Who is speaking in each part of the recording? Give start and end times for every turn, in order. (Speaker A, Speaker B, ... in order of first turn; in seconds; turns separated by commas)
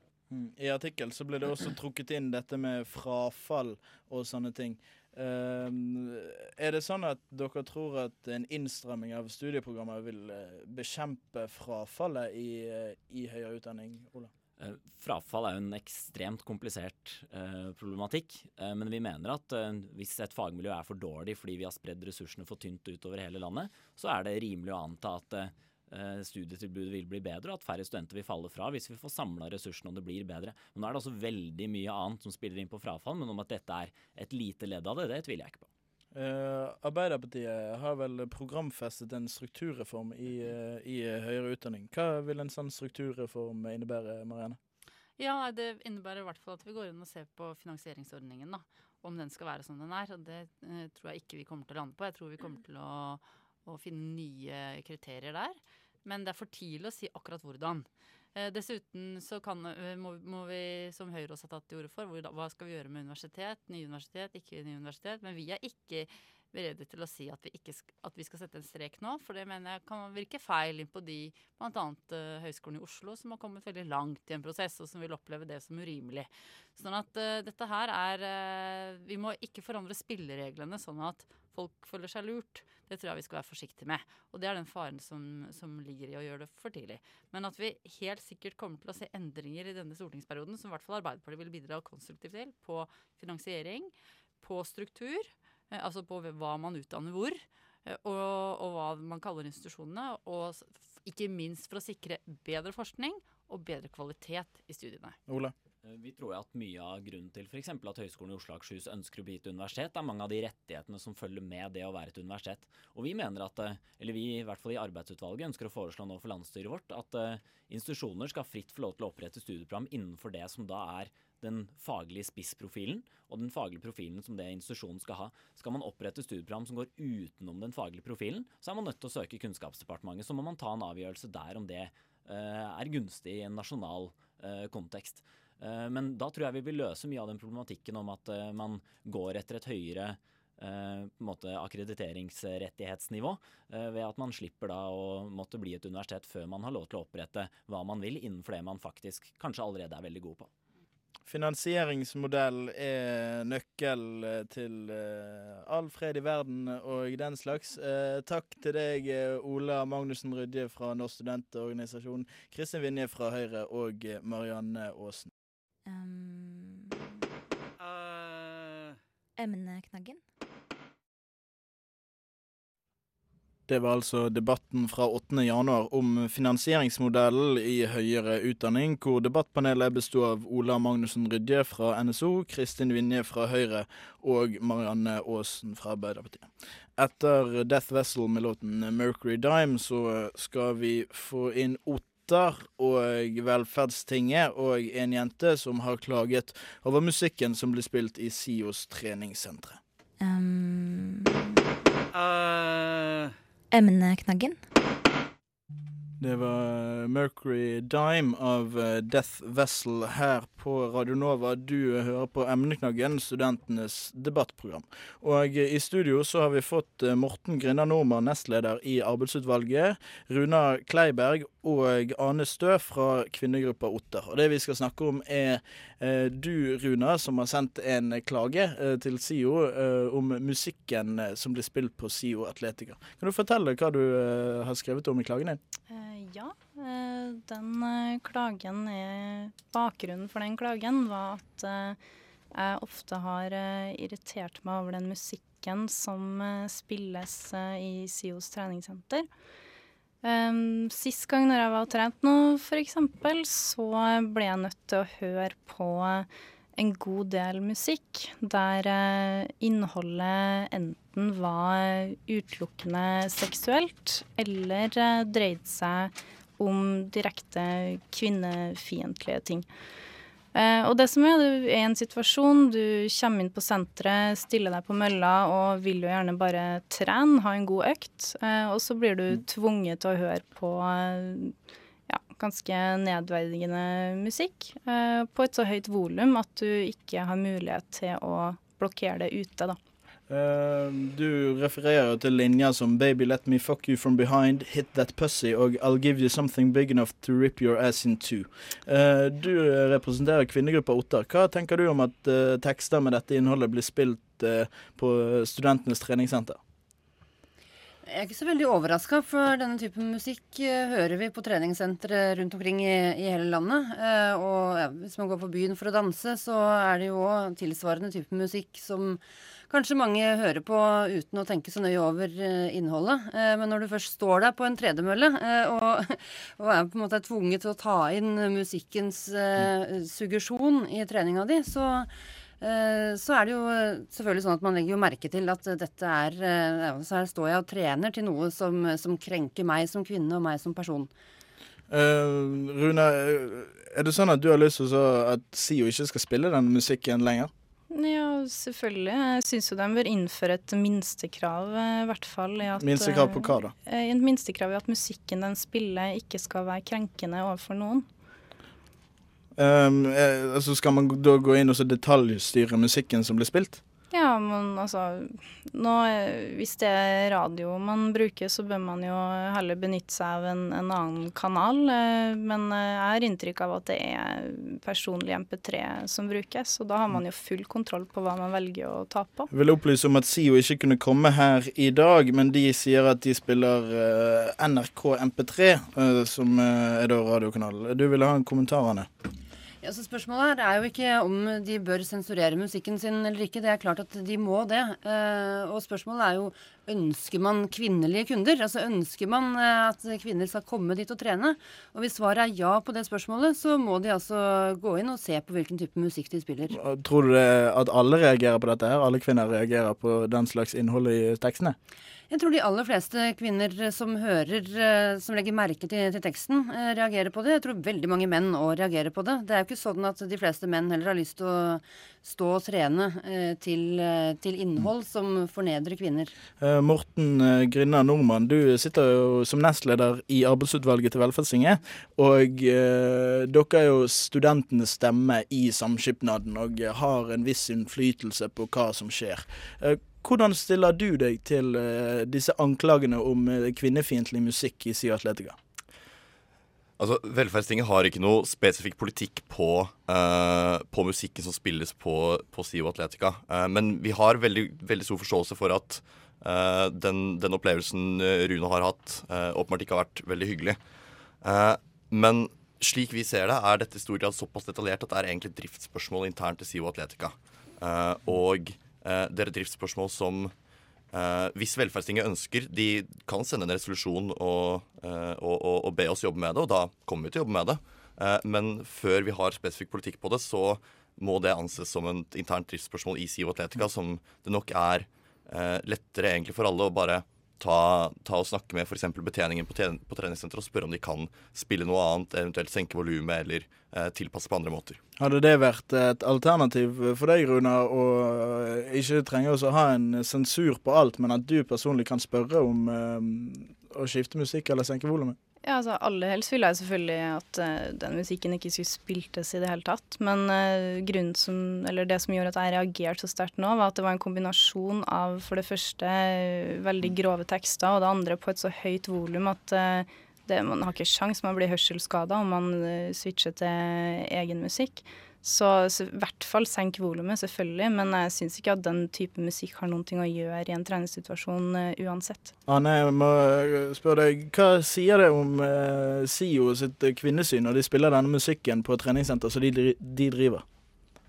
Speaker A: 0.3-14.3, Speaker B: 14.6-35.7, Speaker A: 36.1-44.6, Speaker C: 45.2-105.2, Speaker A: 105.3-105.5, Speaker B: 105.8-150.5, Speaker A: 151.3-165.3, Speaker D: 165.9-167.3, Speaker E: 167.8-169.0, Speaker D: 169.4-170.2, Speaker A: 173.7-199.8, Speaker D: 200.2-201.6, Speaker E: 202.1-203.3, Speaker D: 203.7-204.6, Speaker A: 206.2-235.6, Speaker F: 235.9-242.0, Speaker F: 242.5-249.3, Speaker F: 250.2-269.7, Speaker F: 270.5-281.6, Speaker F: 282.1-289.8, Speaker A: 290.3-306.6, Speaker G: 308.1-341.1, Speaker A: 341.9-347.5, Speaker F: 347.9-358.1, Speaker A: 352.8-353.7, Speaker A: 359.6-363.8, Speaker F: 364.1-379.5, Speaker A: 379.5-389.1, Speaker G: 389.8-406.8, Speaker A: 406.7-411.8, Speaker G: 412.3-426.3, Speaker A: 426.6-445.6, Speaker H: 447.0-460.8, Speaker H: 461.4-470.5, Speaker H: 471.1-495.0, Speaker A: 495.2-505.4, Speaker F: 505.6-532.5, Speaker A: 532.7-540.6